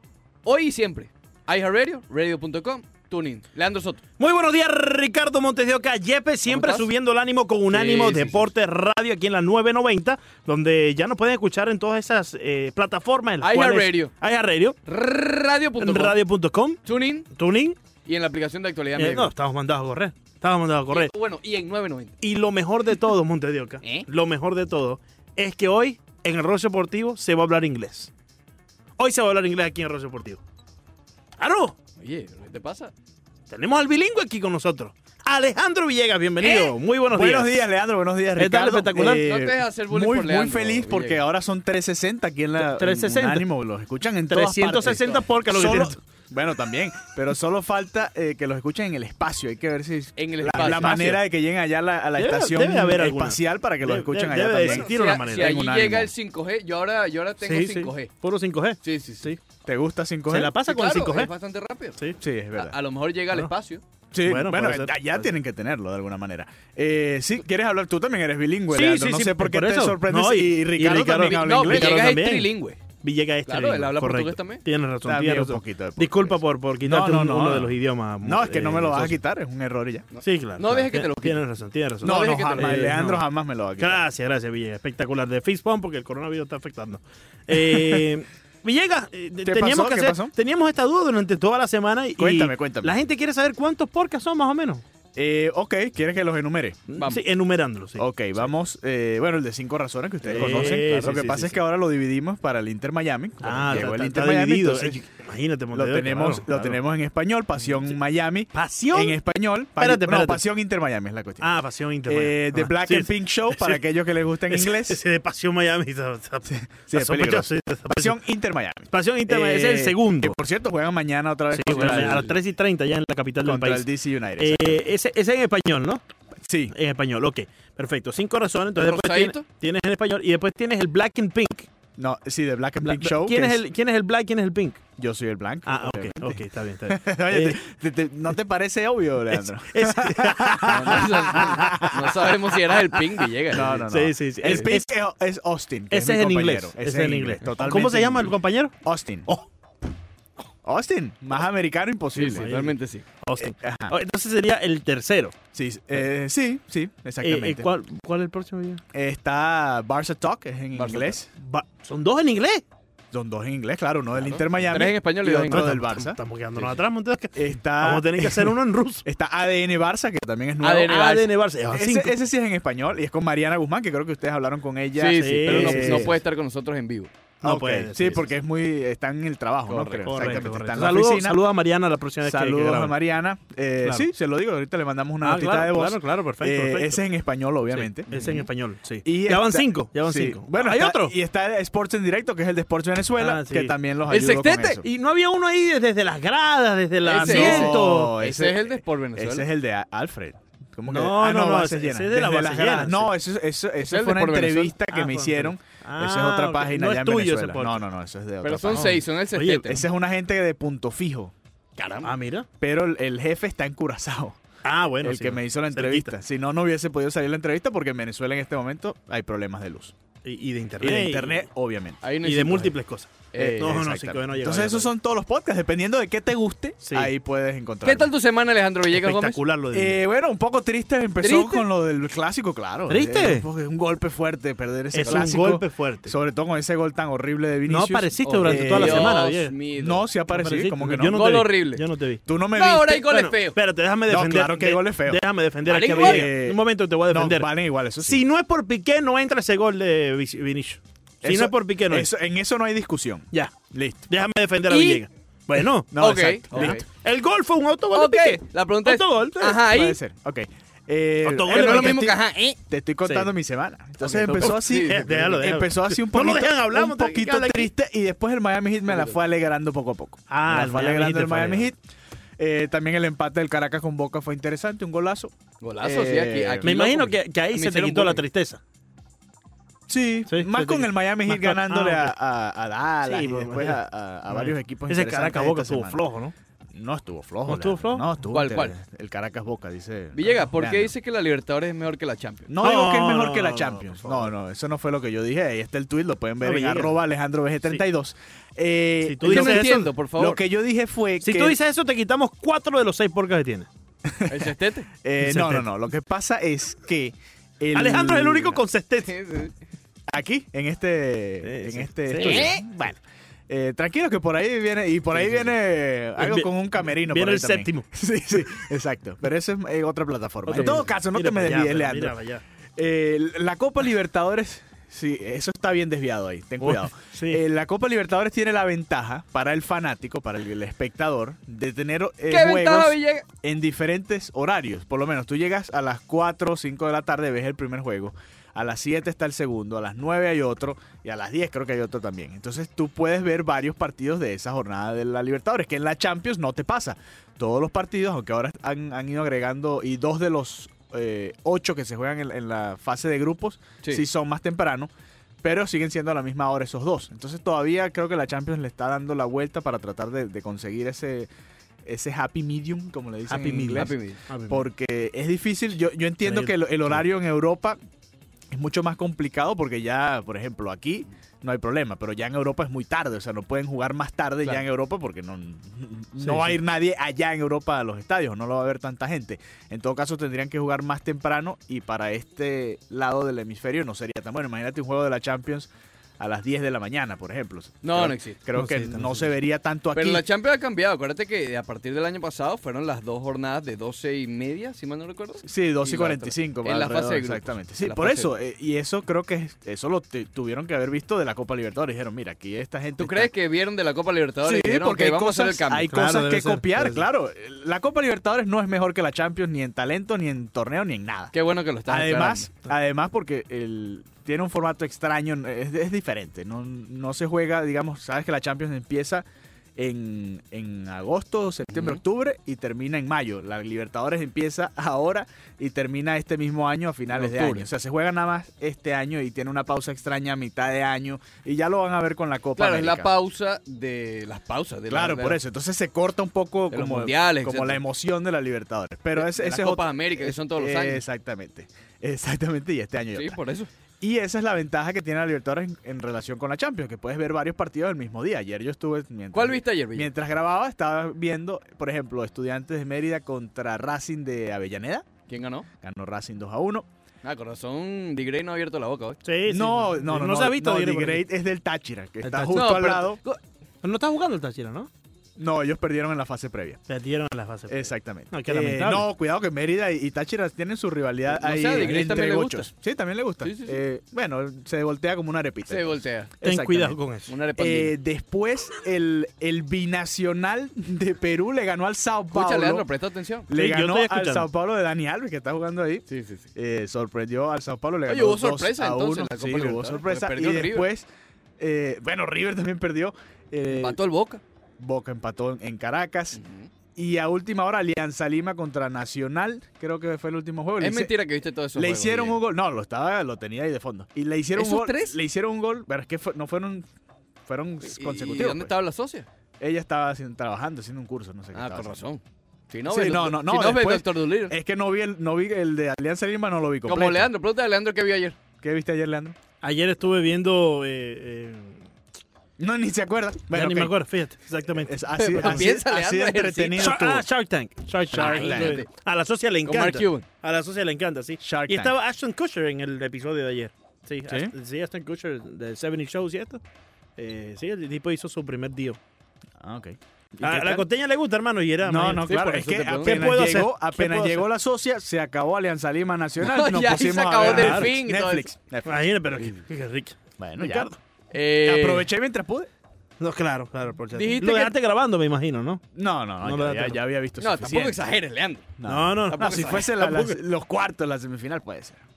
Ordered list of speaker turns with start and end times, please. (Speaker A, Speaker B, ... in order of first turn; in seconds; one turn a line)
Speaker A: 0.4-4.0
Speaker B: 4.2-14.8
Speaker A: 6.5-6.8
Speaker A: 7.7-8.5
Speaker A: 13.4-14.1
Speaker A: 14.8-16.2
Speaker B: 15.8-16.8
Speaker A: 16.8-17.2
Speaker B: 17.3-17.8
Speaker A: 18.0-19.3
Speaker B: 19.0-21.1
Speaker A: 20.9-22.1
Speaker B: 22.2-28.1
Speaker B: 29.0-30.4
Speaker B: 31.4-31.7
Speaker A: 32.0-32.9
Speaker B: 33.5-37.6
Speaker A: 36.4-36.7
Speaker C: 37.1-56.1
Speaker B: 38.4-39.2
Speaker A: 39.0-41.2
Speaker B: 42.6-43.5
Speaker B: 44.3-46.0
Speaker A: 50.2-51.2
Speaker B: 50.8-51.1
Speaker B: 52.2-55.5
Speaker A: 54.6-58.1
Speaker B: 57.4-59.4
Speaker A: 58.8-59.3
Speaker C: 59.6-60.5
Speaker B: 60.3-61.3
Speaker A: 60.6-62.0
Speaker C: 62.2-62.7
Speaker A: 62.5-63.8
Speaker C: 64.1-72.0
Speaker B: 64.3-65.0
Speaker B: 68.7-79.2
Speaker A: 71.2-72.8
Speaker A: 73.5-74.6
Speaker C: 75.0-80.1
Speaker A: 80.1-81.4
Speaker B: 80.2-83.2
Speaker C: 82.0-84.0
Speaker A: 82.0-82.7
Speaker B: 83.8-94.8
Speaker C: 87.5-88.0
Speaker C: 89.4-90.3
Speaker C: 92.2-93.0
Speaker C: 95.1-96.8
Speaker B: 96.9-98.1
Speaker C: 98.0-105.0
Speaker B: 100.2-101.6
Speaker B: 103.4-106.8
Speaker C: 105.7-111.5
Speaker B: 108.5-109.2
Speaker B: 109.8-110.4
Speaker B: 111.4-113.8
Speaker C: 112.0-115.0
Speaker B: 114.5-118.2
Speaker C: 116.5-122.3
Speaker B: 118.9-120.4
Speaker B: 121.5-126.0
Speaker A: 121.7-122.3
Speaker C: 123.4-124.8
Speaker C: 126.4-126.7
Speaker B: 126.7-131.7
Speaker A: 128.8-129.4
Speaker C: 132.0-133.6
Speaker B: 132.8-134.8
Speaker C: 135.0-142.3
Speaker B: 135.7-137.6
Speaker B: 139.3-141.9
Speaker A: 140.6-143.8
Speaker C: 143.5-149.3
Speaker B: 143.6-144.9
Speaker B: 145.9-148.7
Speaker C: 150.6-152.6
Speaker A: 152.1-153.0
Speaker B: 152.4-155.3
Speaker C: 153.4-153.9
Speaker C: 155.5-157.7
Speaker B: 157.2-158.8
Speaker C: 158.9-161.3
Speaker A: 160.7-161.2
Speaker B: 161.4-162.6
Speaker C: 163.1-166.7
Speaker A: 164.1-165.7
Speaker B: 165.5-169.0
Speaker C: 167.3-176.2
Speaker A: 170.6-171.2
Speaker B: 170.7-172.1
Speaker A: 174.9-177.1
Speaker B: 175.2-176.2
Speaker C: 177.4-181.4
Speaker B: 177.4-178.3
Speaker A: 179.7-180.4
Speaker B: 180.0-182.9
Speaker C: 182.2-188.1
Speaker B: 185.2-187.0
Speaker B: 187.7-191.1
Speaker A: 188.1-188.4
Speaker C: 189.0-194.8
Speaker B: 193.2-193.7
Speaker A: 194.1-194.8
Speaker B: 194.8-198.2
Speaker A: 197.0-199.4
Speaker C: 197.2-209.0
Speaker B: 200.9-203.1
Speaker A: 203.8-204.8
Speaker B: 204.9-207.8
Speaker A: 208.4-209.8
Speaker B: 208.7-209.6
Speaker C: 209.6-211.3
Speaker A: 211.8-212.1
Speaker B: 212.0-212.5
Speaker C: 212.6-214.4
Speaker B: 214.6-216.1
Speaker C: 215.0-219.9
Speaker B: 220.2-221.4
Speaker C: 220.8-222.0
Speaker A: 222.0-222.8
Speaker B: 222.2-224.9
Speaker A: 223.3-223.8
Speaker C: 223.4-228.1
Speaker B: 226.8-227.1
Speaker A: 227.8-229.4
Speaker B: 228.9-230.0
Speaker C: 229.7-239.2
Speaker A: 231.2-231.6
Speaker B: 232.9-233.4
Speaker B: 234.9-236.1
Speaker B: 237.7-239.5
Speaker A: 238.2-240.1
Speaker C: 239.8-241.4
Speaker B: 240.3-242.2
Speaker A: 241.0-241.8
Speaker C: 242.2-243.1
Speaker A: 242.5-243.6
Speaker B: 243.0-247.5
Speaker C: 244.1-245.2
Speaker A: 245.6-246.3
Speaker C: 245.8-248.2
Speaker B: 248.0-252.1
Speaker C: 251.2-254.1
Speaker B: 254.1-255.9
Speaker A: 254.7-255.0
Speaker C: 255.9-256.8
Speaker A: 255.9-256.8
Speaker B: 256.5-259.5
Speaker A: 257.9-260.0
Speaker C: 259.3-271.8
Speaker B: 261.2-262.1
Speaker A: 261.5-262.6
Speaker B: 263.0-263.3
Speaker A: 264.0-265.0
Speaker B: 264.3-267.7
Speaker B: 270.3-271.7
Speaker C: 272.4-276.7
Speaker A: 275.6-278.2
Speaker B: 276.6-278.6
Speaker C: 279.9-286.0
Speaker B: 280.3-282.1
Speaker B: 283.0-286.3
Speaker C: 286.7-290.9
Speaker B: 287.5-288.1
Speaker A: 288.3-288.7
Speaker A: 290.1-292.5
Speaker C: 292.5-301.6
Speaker B: 292.6-294.3
Speaker B: 296.4-297.0
Speaker B: 299.0-299.9
Speaker A: 299.3-300.4
Speaker B: 301.2-303.7
Speaker C: 304.1-308.6
Speaker A: 304.3-304.9
Speaker B: 305.2-305.7
Speaker B: 307.7-309.2
Speaker A: 309.1-309.5
Speaker C: 310.1-322.2
Speaker B: 311.4-312.5
Speaker A: 312.2-312.6
Speaker B: 315.1-315.5
Speaker B: 316.2-317.8
Speaker B: 320.4-322.4
Speaker C: 322.8-354.9
Speaker B: 326.6-327.4
Speaker A: 332.3-333.2
Speaker C: 355.4-361.3
Speaker C: 361.8-363.9
Speaker B: 363.3-364.7
Speaker A: 363.7-364.2
Speaker C: 364.5-367.8
Speaker B: 366.2-367.0
Speaker C: 368.5-390.2
Speaker B: 376.2-376.6
Speaker A: 387.8-388.4
Speaker B: 388.5-389.3
Speaker A: 389.9-398.3
Speaker C: 395.4-403.3
Speaker A: 403.0-405.9
Speaker C: 404.4-411.3
Speaker B: 405.9-407.1
Speaker A: 411.3-412.5
Speaker C: 411.9-433.1
Speaker A: 421.7-422.0
Speaker A: 427.1-427.7
Speaker A: 432.6-435.4
Speaker C: 434.9-443.4
Speaker A: 436.7-437.8
Speaker A: 439.1-441.0
Speaker A: 443.1-443.7
Speaker C: 444.0-455.1
Speaker A: 449.3-450.1
Speaker A: 455.3-455.7
Speaker C: 455.8-456.9
Speaker A: 457.2-459.2
Speaker B: 459.2-461.3
Speaker C: 459.5-463.2
Speaker B: 462.2-462.7
Speaker A: 462.5-463.4
Speaker B: 463.8-464.9
Speaker C: 465.4-466.8
Speaker B: 466.9-469.1
Speaker C: 467.7-477.0
Speaker A: 471.3-472.7
Speaker A: 473.4-473.8
Speaker A: 475.7-476.3
Speaker B: 476.4-477.3
Speaker A: 477.3-477.9
Speaker C: 477.6-482.9
Speaker A: 482.3-483.5
Speaker C: 483.5-491.1
Speaker B: 483.5-484.5
Speaker A: 486.1-486.5
Speaker A: 488.1-490.9
Speaker C: 491.6-494.0
Speaker A: 493.7-494.4
Speaker C: 494.8-496.4
Speaker A: 496.3-496.7
Speaker C: 496.9-501.1
Speaker A: 500.8-502.4
Speaker C: 501.7-506.9
Speaker A: 504.5-505.2
Speaker C: 507.4-508.8
Speaker A: 507.9-509.3
Speaker C: 509.6-512.0
Speaker A: 511.5-514.5
Speaker C: 512.9-517.3
Speaker A: 516.9-518.4
Speaker C: 518.6-519.4
Speaker B: 519.6-521.8
Speaker C: 522.6-523.9
Speaker B: 523.5-525.6
Speaker C: 524.8-527.2
Speaker A: 525.2-526.9
Speaker B: 526.8-536.6
Speaker C: 528.1-528.8
Speaker A: 528.2-528.9
Speaker A: 529.6-530.2
Speaker C: 531.4-531.9
Speaker C: 534.3-534.5
Speaker B: 537.2-539.0
Speaker C: 539.6-540.9
Speaker B: 540.4-544.5
Speaker C: 541.8-549.0
Speaker A: 542.4-543.3
Speaker A: 546.4-548.5
Speaker B: 547.4-547.9
Speaker B: 548.9-551.0
Speaker C: 550.4-550.9
Speaker A: 551.3-552.1
Speaker C: 551.6-552.7
Speaker B: 553.2-555.8
Speaker A: 554.1-554.7
Speaker C: 555.9-558.0
Speaker B: 556.4-557.0
Speaker A: 557.4-558.7
Speaker C: 558.8-562.0
Speaker B: 558.9-560.4
Speaker A: 559.3-559.9